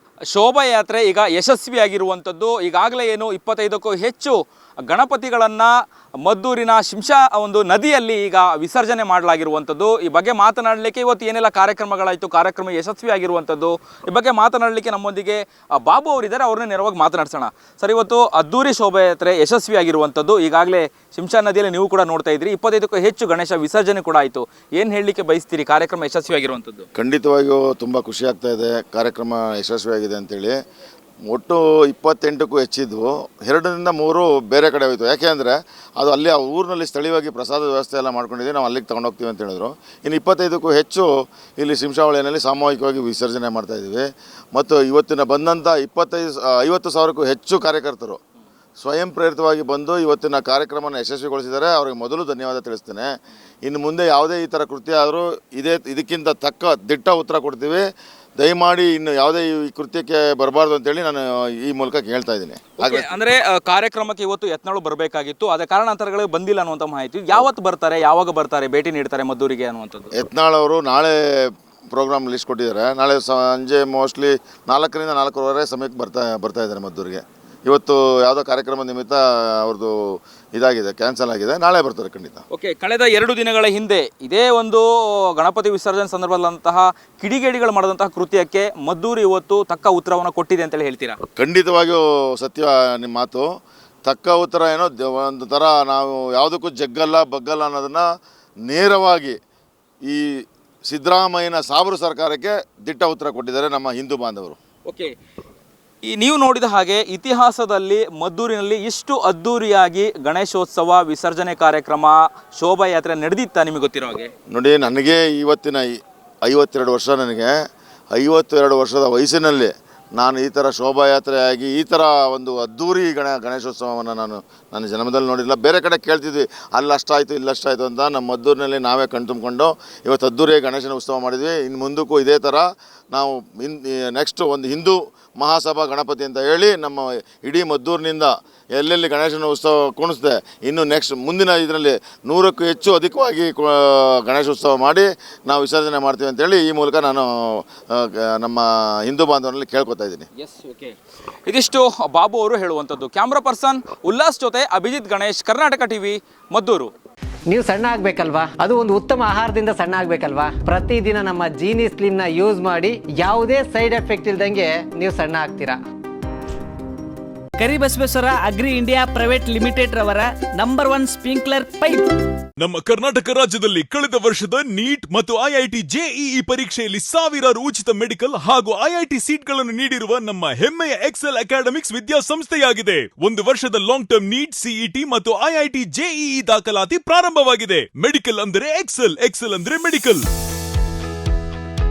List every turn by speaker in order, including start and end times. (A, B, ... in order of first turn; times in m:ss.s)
0:00.3-0:05.7 A
0:06.2-0:26.9 A
0:27.0-0:30.6 B
0:31.3-0:48.2 B
0:48.8-0:53.1 B
0:53.6-0:57.8 B
0:58.4-1:03.1 B
1:02.8-1:10.1 A
1:10.1-1:22.4 B
1:22.5-1:31.2 A
1:31.4-1:33.5 B
1:34.1-1:38.1 B
1:38.6-1:39.4 B
1:40.1-1:44.6 B
1:44.9-1:45.1 A
1:46.0-1:54.3 A
1:54.5-1:55.9 B
1:56.4-1:57.5 B
1:58.1-2:30.3 B
2:30.4-2:36.9 A
2:37.5-2:45.8 C
2:47.6-2:52.1 D
2:52.6-3:10.2 E